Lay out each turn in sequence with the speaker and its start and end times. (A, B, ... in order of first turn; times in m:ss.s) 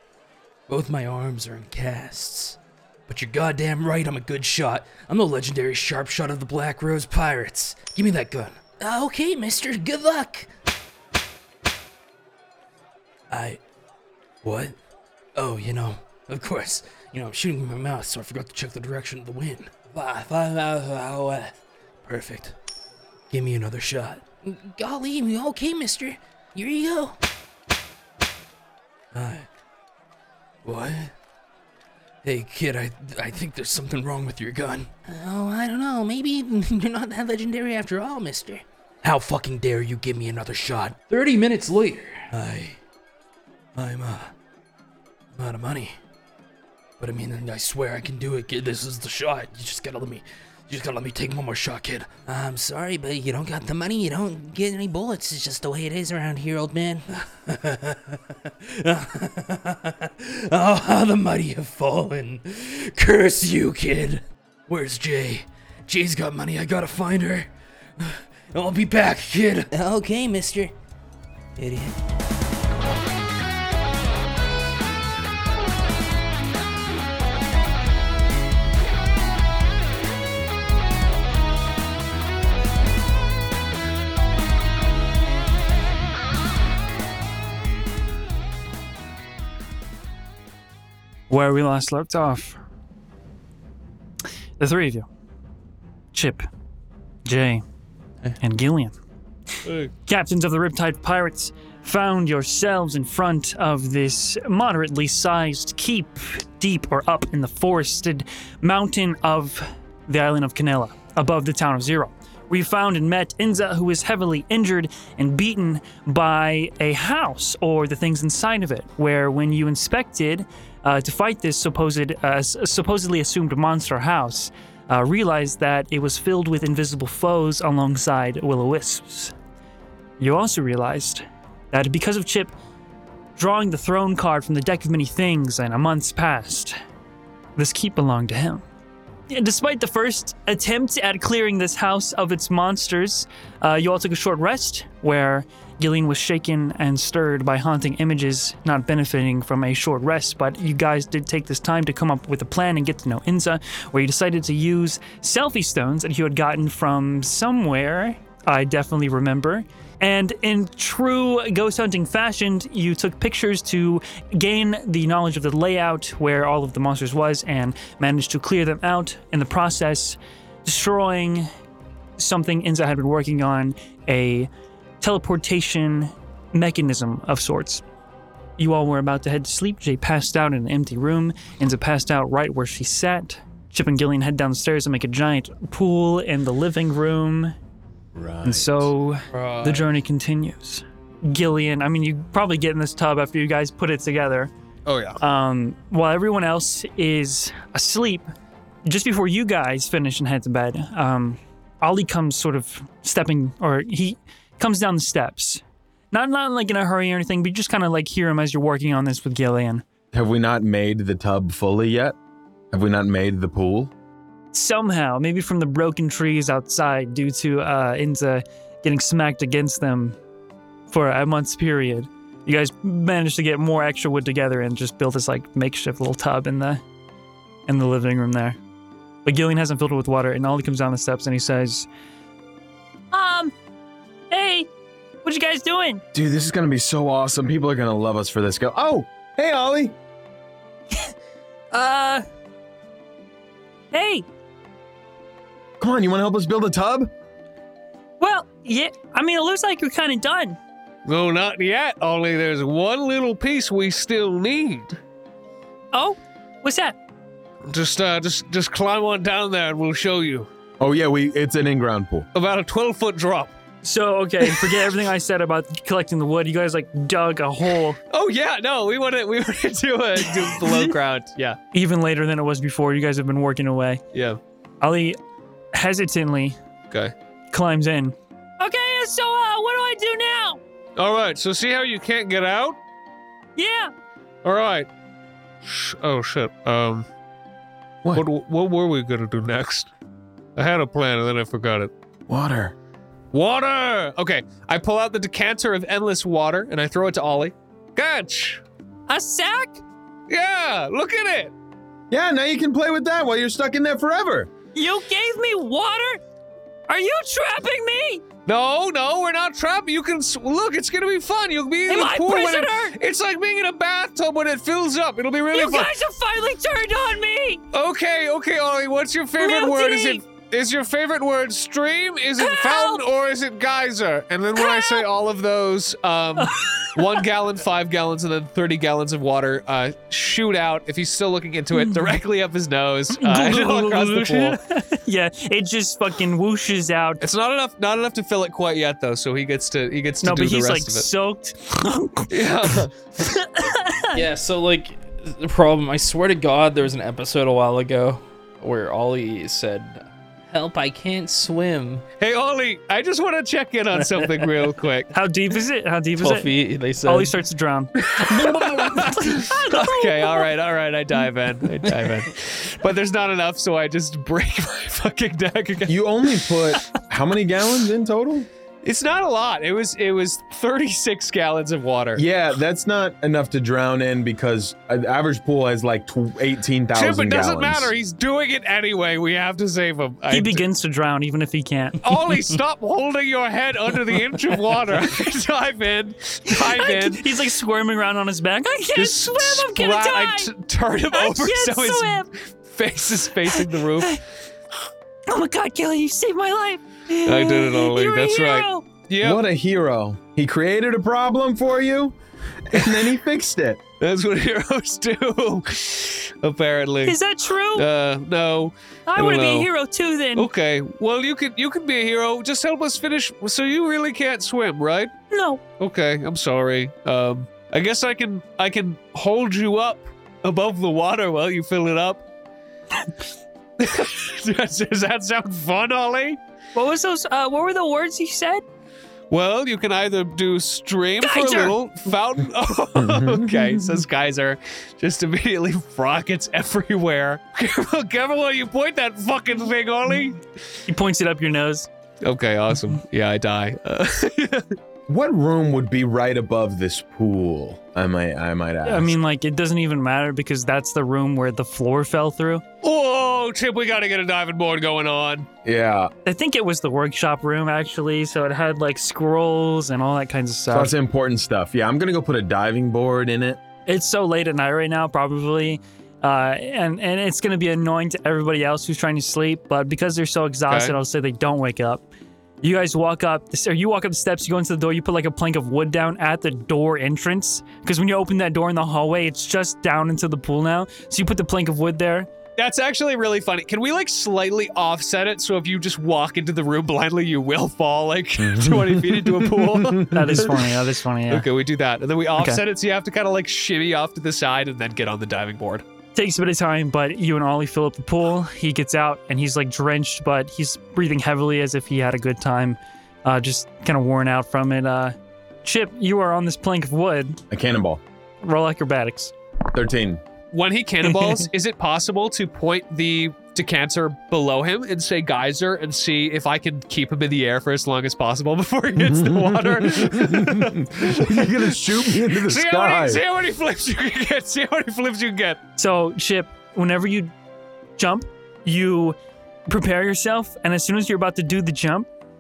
0:00.7-0:02.6 A
0:00.7-0:02.6 B
0:03.1-0:10.5 A
0:03.1-0:10.3 B
0:13.3-0:13.6 B
0:13.3-0:13.6 A
0:14.4-0:14.7 A
0:14.4-0:14.7 B
0:15.4-0:21.5 A
0:15.4-0:21.5 B
0:22.1-0:22.5 A
0:22.1-0:22.5 B
0:23.3-0:27.2 A
0:23.3-0:24.2 B
0:25.2-0:26.0 B
0:29.2-0:29.5 B
0:29.2-0:29.4 A
0:30.6-0:31.1 A
0:30.7-0:31.1 B
0:32.2-0:41.0 A
0:32.3-0:35.2 B
0:35.9-0:42.8 B
0:42.4-0:42.8 A
0:43.8-0:44.2 A
0:43.8-0:44.2 B
0:45.4-0:45.9 A
0:45.4-0:45.9 B
0:47.0-0:57.0 A
0:47.0-0:58.0 B
0:58.7-1:04.2 B
0:59.2-0:59.7 A
1:00.3-1:07.5 A
1:04.7-1:07.5 B
1:08.5-1:10.7 B
1:08.5-1:10.7 A
1:11.6-1:11.9 A
1:11.6-1:11.9 B
1:31.3-1:32.6 C
1:34.6-1:35.1 C
1:36.1-1:36.4 C
1:37.2-1:37.6 C
1:38.4-1:38.9 C
1:39.7-1:39.9 D
1:40.1-2:09.3 C
2:10.2-2:12.5 C
2:13.4-2:16.8 C
2:17.6-2:18.6 C
2:19.3-2:51.5 C
2:52.2-2:57.8 C
2:58.6-3:07.5 C
3:08.2-3:08.9 E
3:08.4-3:14.5 C
3:09.3-3:09.9 B
3:14.9-3:15.2 D
3:15.2-3:18.3 C
3:18.8-3:29.8 C
3:30.1-3:32.2 E
3:32.7-3:33.9 E
3:34.5-3:40.2 C
3:40.9-3:46.8 C
3:47.7-3:48.6 C
3:49.2-3:51.9 C
3:53.1-3:53.5 C
3:54.3-3:54.7 C
3:55.2-3:56.0 C
3:56.1-4:00.0 E
4:01.7-4:02.2 C
4:03.9-4:04.3 C
4:05.8-4:07.1 E
4:08.2-4:10.6 C
4:11.1-4:15.0 D
4:15.9-4:17.0 C
4:17.7-4:20.5 D
4:20.8-4:22.3 E
4:22.3-4:23.5 D
4:23.8-4:28.0 C
4:28.1-4:31.6 D
4:31.7-4:34.0 C
4:34.1-4:34.4 D
4:34.8-4:35.2 C
4:35.7-4:36.6 C
4:37.5-4:40.6 C
4:41.0-4:42.8 D
4:43.6-4:43.9 C
4:44.4-4:44.9 D
4:45.6-4:47.1 D
4:48.1-4:49.9 D
4:50.6-4:51.9 D
4:52.3-4:52.8 E
4:53.3-4:58.6 D
4:59.1-4:59.8 C
5:00.3-5:01.5 D
5:02.1-5:04.5 E
5:04.8-5:06.2 C
5:06.9-5:08.2 C
5:08.5-5:15.9 D
5:11.9-5:13.0 C
5:15.5-5:17.6 C
5:17.7-5:34.6 D
5:19.4-5:20.2 C
5:22.4-5:23.0 C
5:24.6-5:25.0 C
5:26.4-5:27.1 C
5:31.8-5:32.1 C
5:33.2-5:37.2 C
5:37.2-5:41.1 D
5:40.2-5:44.2 C
5:42.3-5:42.9 D
5:44.1-5:52.0 B
5:52.2-5:55.1 D
5:55.1-6:00.5 C
5:56.2-5:57.3 B
5:58.0-6:06.0 D
6:05.9-6:08.5 E
6:08.8-6:12.2 D
6:12.2-6:17.9 E
6:17.0-6:20.6 D
6:20.3-6:22.0 C
6:22.0-6:27.3 D
6:26.5-6:30.5 C
6:28.9-6:34.2 D
6:31.1-6:32.3 C
6:33.5-6:34.2 C
6:35.3-6:38.8 C
6:37.2-6:39.4 D
6:39.2-6:42.2 E
6:42.7-6:43.8 E
6:42.7-6:43.1 D
6:44.0-6:47.2 D
6:47.1-6:47.9 C
6:47.7-6:49.7 D
6:49.1-6:50.5 C
6:50.4-6:55.1 D
6:55.3-6:55.6 C
6:55.8-7:02.2 D
7:03.8-7:06.4 D
7:06.8-7:08.6 C
7:09.3-7:20.4 D
7:11.2-7:11.8 C
7:13.1-7:13.5 E
7:20.9-7:21.9 C
7:22.2-7:24.8 D
7:25.1-7:29.2 E
7:28.8-7:32.6 C
7:32.8-7:35.5 D
7:35.6-7:36.1 E
7:36.2-7:40.9 C
7:40.7-7:43.6 E
7:43.9-7:52.0 C
7:50.7-7:51.0 D
7:52.6-8:02.3 C
8:02.6-8:10.6 D
8:08.4-8:10.3 E
8:10.1-8:11.5 C
8:11.3-8:15.8 D
8:16.2-8:27.4 C
8:27.5-8:28.0 E
8:28.4-8:29.3 C
8:29.7-8:30.2 E
8:30.5-8:45.6 D
8:31.1-8:31.5 C
8:39.0-8:43.2 E
8:45.8-8:47.3 C
8:48.0-8:49.2 C
8:49.7-8:52.1 C